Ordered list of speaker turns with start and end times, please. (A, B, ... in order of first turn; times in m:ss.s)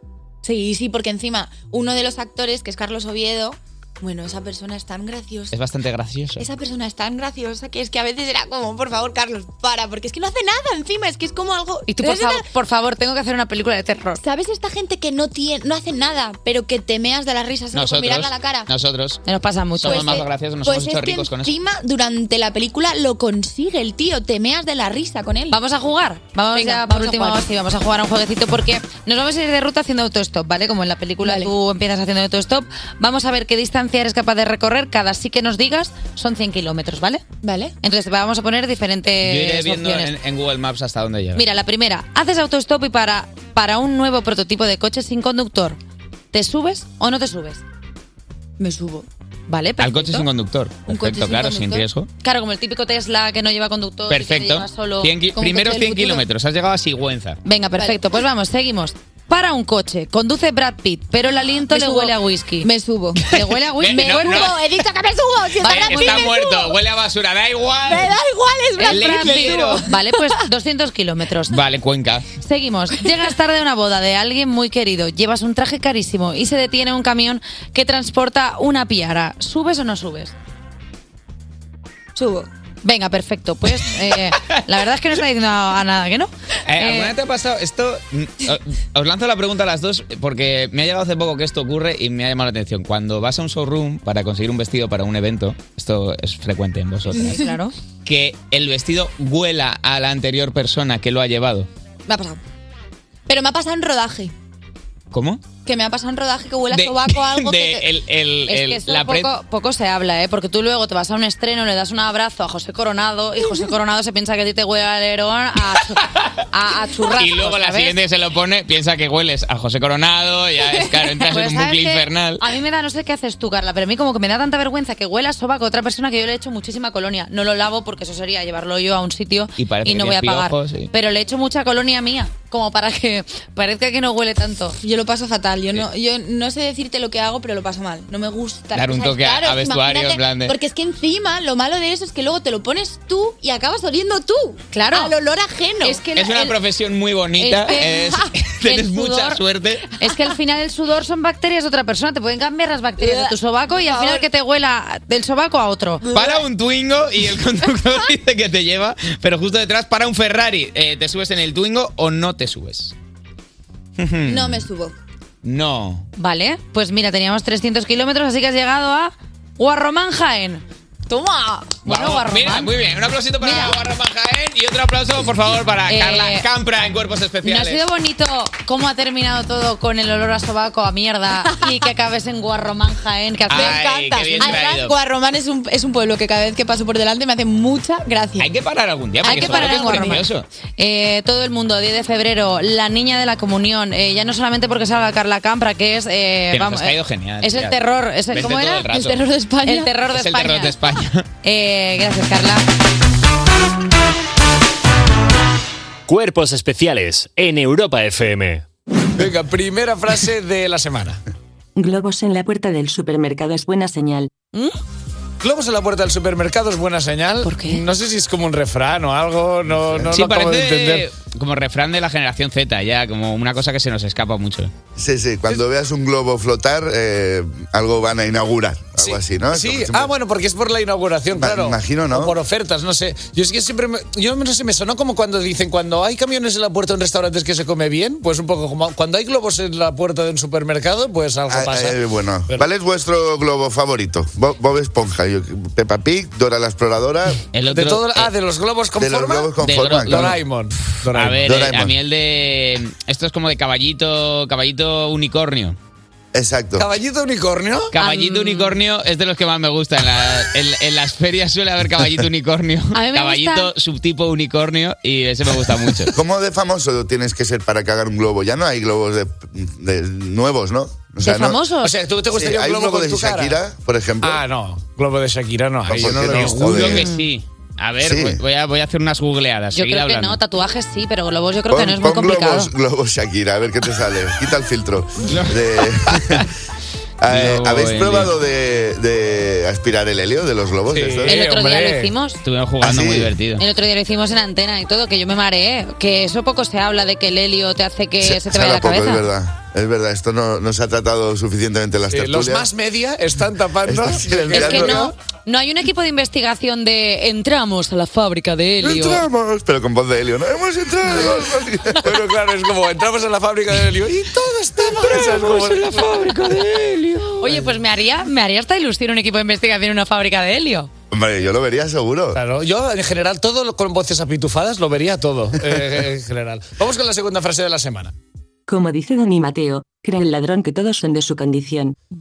0:00.4-0:05.5 A
0:05.5-0:06.4 B
0:06.4-0:12.4 A
0:11.9-0:14.2 C
0:14.2-0:18.7 A
0:17.7-0:19.2 B
0:19.2-0:20.2 C
0:19.8-0:21.5 B
0:19.8-0:25.6 A
0:25.5-0:37.2 C
0:26.5-0:27.4 A
0:31.2-0:31.5 A
0:37.4-0:37.7 A
0:37.8-0:40.1 C
0:39.2-0:41.4 B
0:41.3-0:45.8 C
0:46.3-0:47.6 C
0:48.6-0:49.1 A
0:49.5-0:50.3 C
0:49.8-0:52.1 B
0:50.9-0:51.8 A
0:52.2-0:56.2 C
0:54.1-0:57.4 B
0:57.4-1:04.6 C
0:57.8-0:58.0 A
1:01.6-1:03.3 A
1:03.3-1:04.7 B
1:03.8-1:06.7 A
1:05.6-1:06.4 C
1:05.6-1:08.1 B
1:07.9-1:10.4 A
1:08.8-1:11.6 C
1:08.9-1:09.8 B
1:11.5-1:12.3 B
1:12.4-1:20.3 C
1:22.2-1:22.5 A
1:22.8-1:27.1 C
1:26.7-1:37.4 B
1:37.1-1:37.7 C
1:37.2-1:37.5 A
1:38.0-1:41.7 B
1:42.1-1:42.4 A
1:43.3-1:44.3 A
1:45.1-1:45.4 B
1:45.6-1:47.9 A
1:46.7-1:49.3 B
1:48.5-1:57.9 C
1:57.1-2:02.5 B
2:00.8-2:14.8 C
2:09.6-2:10.9 B
2:14.8-2:26.5 A
2:18.7-2:20.6 B
2:24.7-2:25.1 C
2:26.1-2:29.9 B
2:27.4-2:29.4 C
2:27.6-2:28.2 A
2:30.0-2:36.1 C
2:33.0-2:34.2 A
2:36.0-2:36.4 A
2:36.1-2:42.9 B
2:44.0-2:44.7 B
2:44.2-2:44.9 A
2:45.4-2:46.1 B
2:46.2-2:50.6 C
2:51.1-2:51.8 A
2:51.8-2:52.7 C
2:51.8-2:57.8 B
2:53.4-2:53.8 C
2:55.9-2:56.4 C
2:57.4-3:04.6 C
3:03.5-3:04.9 B
3:03.5-3:08.5 A
3:08.4-3:10.4 B
3:09.2-3:18.9 C
3:09.3-3:10.1 A
3:16.5-3:17.8 B
3:18.3-3:19.2 B
3:18.9-3:19.9 A
3:19.6-3:20.8 C
3:20.1-3:21.2 B
3:21.4-3:22.6 C
3:26.1-3:28.6 D
3:29.2-3:31.2 E
3:31.8-3:34.3 F
3:35.4-3:41.0 E
3:37.4-3:37.8 F
3:40.0-3:44.7 B
3:45.0-3:50.1 G
3:49.0-4:02.6 E
3:51.3-3:52.4 G
4:01.5-4:07.4 G
4:07.5-4:08.3 B
4:07.7-4:11.4 E
4:08.9-4:10.4 G
4:09.6-4:10.4 B
4:11.0-4:15.8 B
4:11.4-4:11.9 G
4:16.3-4:16.9 G
4:16.8-4:17.9 E
4:17.9-4:26.2 B
4:18.0-4:18.8 C
4:22.9-4:23.7 C
4:26.1-4:31.6 G
4:31.2-4:31.9 C
4:31.8-4:33.6 E
4:32.3-4:34.4 G
4:34.2-4:36.9 E
4:35.8-4:37.1 G
4:36.3-4:40.4 B
4:38.0-4:38.4 G
4:39.7-4:42.7 C
4:41.7-4:46.5 G
4:45.3-4:46.5 B
4:47.2-4:51.4 G
4:47.3-4:48.3 B
4:50.9-4:52.1 E
4:51.3-4:52.4 C
4:52.4-4:53.6 B
4:52.8-4:53.3 G
4:53.6-4:59.2 C
4:58.2-5:02.7 G
5:02.1-5:05.1 E
5:03.8-5:05.1 G
5:04.5-5:09.2 C
5:08.8-5:12.1 G
5:11.9-5:17.7 E
5:17.4-5:20.9 C
5:21.1-5:22.4 G
5:22.3-5:28.1 E
5:28.7-5:31.9 F